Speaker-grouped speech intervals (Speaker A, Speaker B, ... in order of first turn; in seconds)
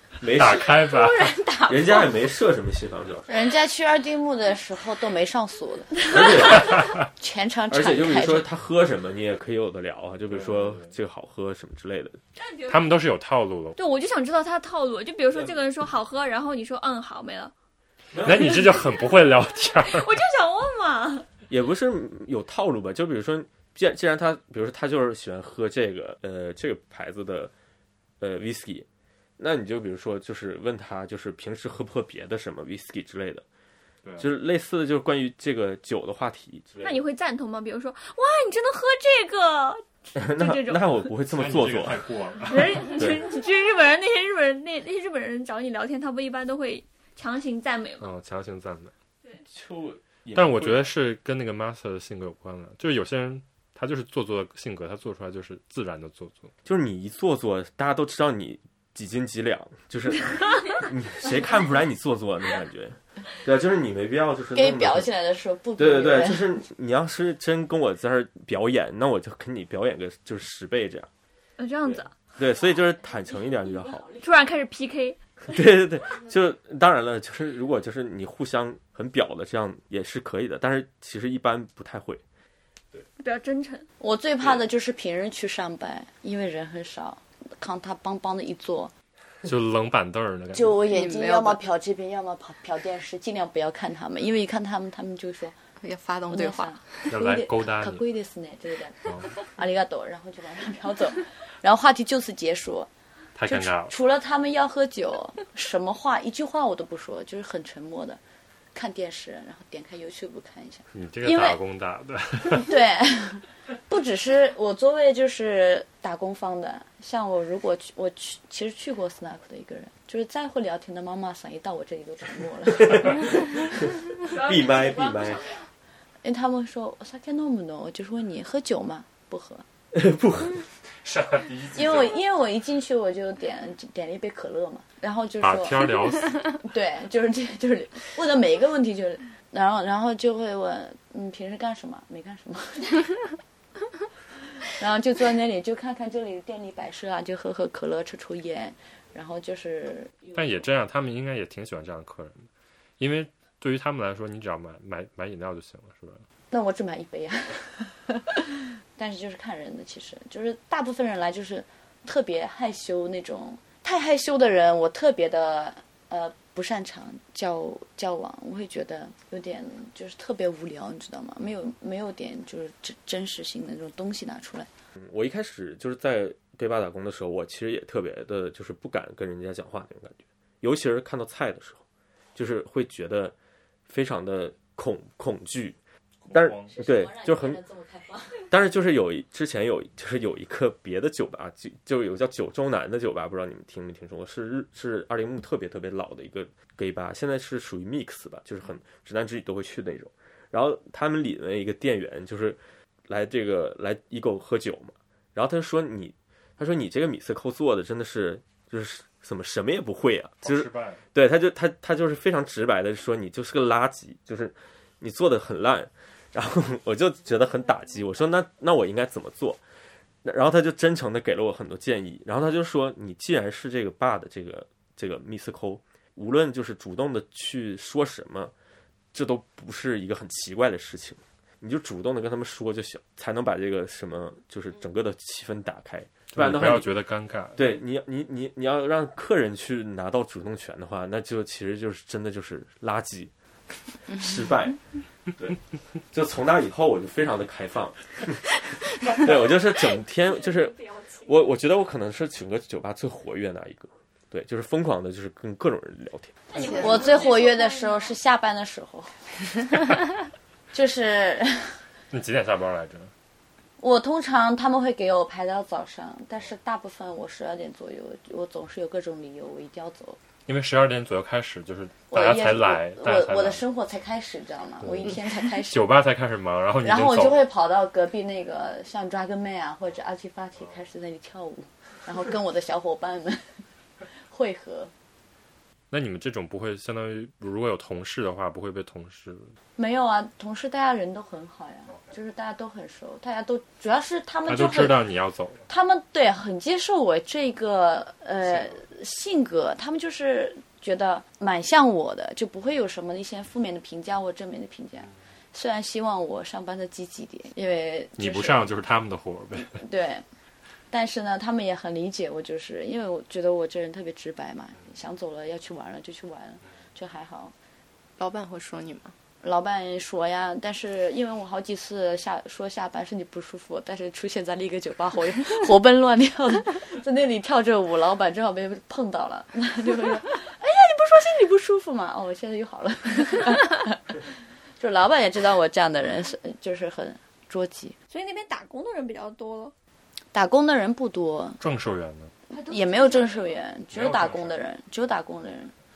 Speaker A: 0.2-0.9, 1.7-3.3, 6.1-6.9, 7.7-12.2, 18.1-18.9, 21.5-27.5, 28.2-28.9, 29.4-33.4, 34.2-37.0, 40.1-42.1, 43.0-43.2, 49.4-50.9, 56.6-65.1, 65.8-71.1, 71.9-74.1, 75.5-82.2, 122.9-123.6, 124.2-125.6, 129.9-130.7, 174.9-181.8, 182.3-183.3, 183.9-185.8, 186.3-187.6, 188.5-219.6, 220.2-228.5, 229.1-236.9, 237.6-243.3, 244.1-244.8, 246.1-248.5, 249.0-256.4
Speaker B: 0.2-1.4, 10.3-10.9, 12.7-13.8, 18.2-20.1, 41.3-42.9, 48.0-48.9, 50.3-56.5, 89.4-90.9, 97.1-98.0, 103.4-103.9, 110.9-112.7, 131.0-132.1, 135.4-136.6, 150.3-152.5, 153.0-156.2, 186.2-186.7, 210.4-211.0, 236.3-237.6, 262.1-263.1, 270.4-273.6, 274.8-275.2, 275.7-277.4, 285.9-289.5, 294.5-295.6, 308.2-309.8, 341.6-342.3, 343.9-344.6
Speaker C: 1.0-1.3, 12.4-12.9, 13.8-17.5, 18.4-19.2, 19.8-21.3, 36.8-41.1, 42.4-48.1, 71.6-72.2, 74.2-75.2, 83.2-83.9, 124.2-125.7, 250.2-251.4, 256.5-258.1, 338.1-339.7, 342.5-343.6
Speaker D: 3.3-6.0, 7.2-8.4, 64.5-66.5, 84.0-88.9, 90.5-95.5, 96.3-102.9, 103.5-108.2, 108.7-111.6, 112.5-123.4, 126.2-129.6, 131.7-135.9, 136.6-143.1, 144.7-150.6, 156.5-174.7, 186.7-188.4, 256.7-259.5, 260.7-261.8, 263.8-270.2, 272.1-275.9, 276.8-283.5, 284.2-284.9, 289.8-295.0, 295.7-308.6, 309.7-310.2, 310.9-317.5, 319.4-334.3, 334.8-337.9, 340.3-341.6, 342.5-345.7
Speaker E: 90.8-91.6, 95.8-97.1, 256.5-257.3, 318.2-319.1